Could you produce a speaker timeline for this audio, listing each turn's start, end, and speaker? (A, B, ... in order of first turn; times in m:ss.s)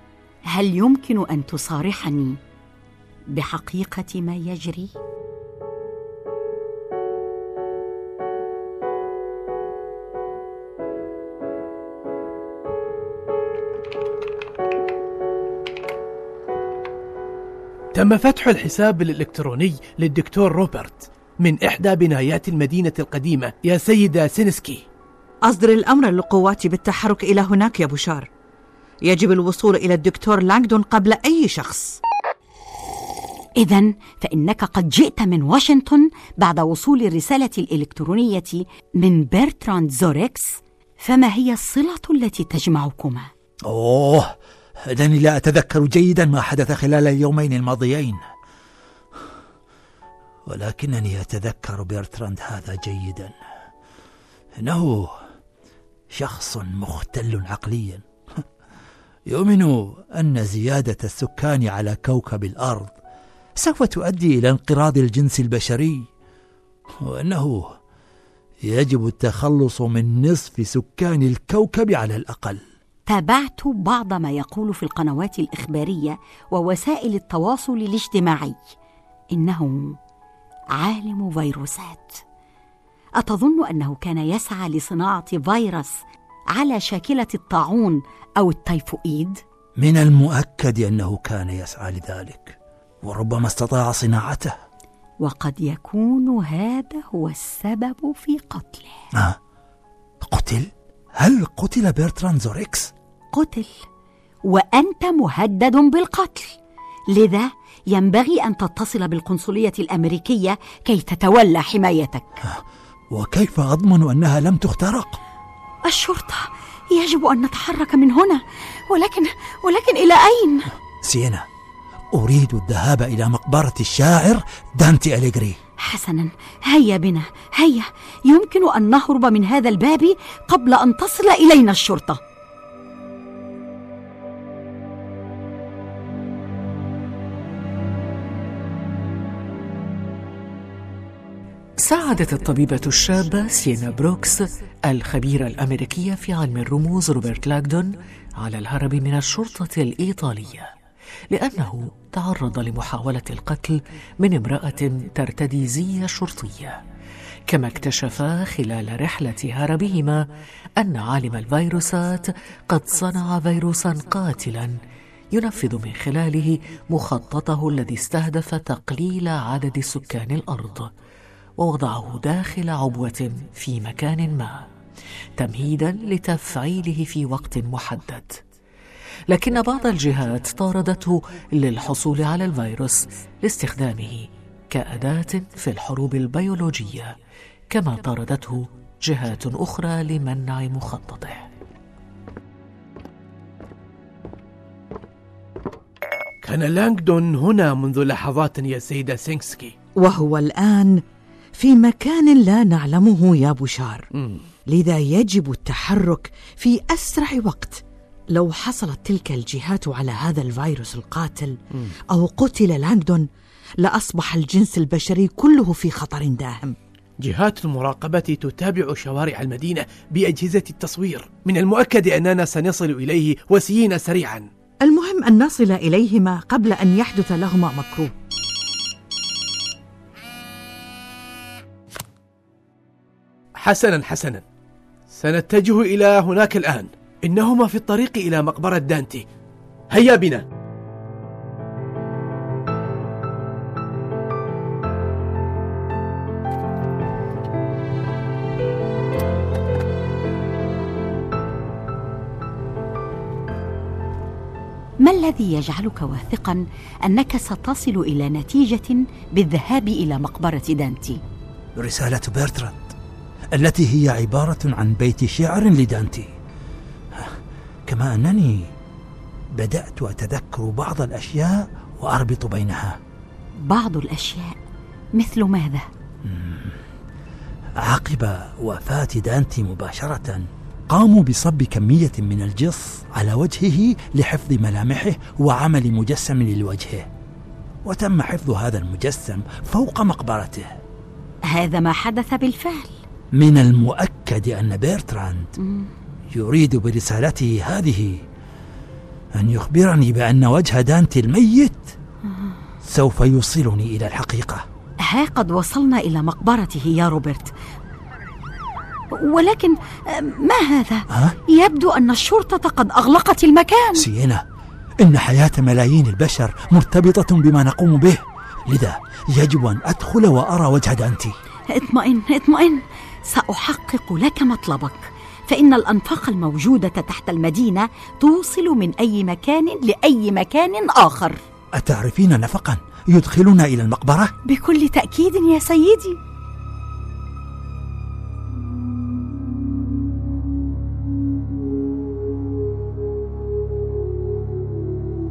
0:00.5-0:02.4 A
0:03.3-0:04.9 A
0:17.9-0:24.8 B
0:25.4-0:28.3 C
0:29.0-0:32.0 C
0:33.6-0:43.3 A
0:43.6-0:48.2 D
0:50.5-0:53.4 D
0:54.6-0:55.2 D
0:56.1-0:58.4 D
0:59.3-1:02.9 D
1:03.6-1:06.1 D
1:07.0-1:07.7 D
1:08.6-1:12.6 D
1:13.1-1:18.6 A
1:19.3-1:20.0 A
1:20.8-1:22.2 A
1:23.2-1:25.9 A
1:26.5-1:29.4 A
1:29.8-1:34.6 D
1:35.2-1:39.0 A
1:39.1-1:39.4 D
1:40.2-1:42.9 D
1:43.3-1:43.8 A
1:44.5-1:46.6 A
1:47.1-1:52.4 A
1:52.4-1:55.2 D
1:55.8-2:00.7 A
2:01.0-2:01.5 D
2:02.1-2:05.6 D
2:05.8-2:12.2 A
2:21.8-2:30.7 E
2:31.3-2:36.8 E
2:37.5-2:40.3 E
2:40.8-2:44.8 E
2:45.3-2:50.9 E
2:51.6-2:54.7 E
2:55.4-2:58.4 E
2:59.3-3:07.2 E
3:07.7-3:11.5 E
3:16.4-3:19.7 B
3:20.0-3:21.0 C
3:21.6-3:24.1 C
3:24.2-3:24.5 B
3:24.7-3:27.8 C
3:28.3-3:31.6 C
3:32.1-3:33.3 C
3:33.8-3:36.8 C
3:37.2-3:44.5 B
3:44.8-3:48.1 C
3:53.6-3:54.4 B
3:55.1-3:59.2 B
3:59.9-4:00.4 B
4:15.0-4:21.2 A
4:21.8-4:23.0 D
4:23.5-4:26.3 D
4:27.1-4:28.7 D
4:29.5-4:33.0 D
4:33.6-4:34.6 A
4:35.2-4:35.9 A
4:36.2-4:36.8 D
4:37.8-4:47.1 D
4:47.8-4:50.8 D
4:51.5-4:53.0 A
4:53.3-4:55.6 D
4:55.6-4:55.9 A
4:56.3-4:58.2 D
4:59.3-5:01.9 D
5:02.3-5:02.6 A
5:02.8-5:04.7 D
5:05.1-5:07.5 A
5:09.1-5:14.1 A
5:11.1-5:11.4 D
5:14.0-5:14.4 D
5:15.0-5:21.3 D
5:21.7-5:31.4 A
5:31.8-5:34.3 D
5:34.5-5:36.2 A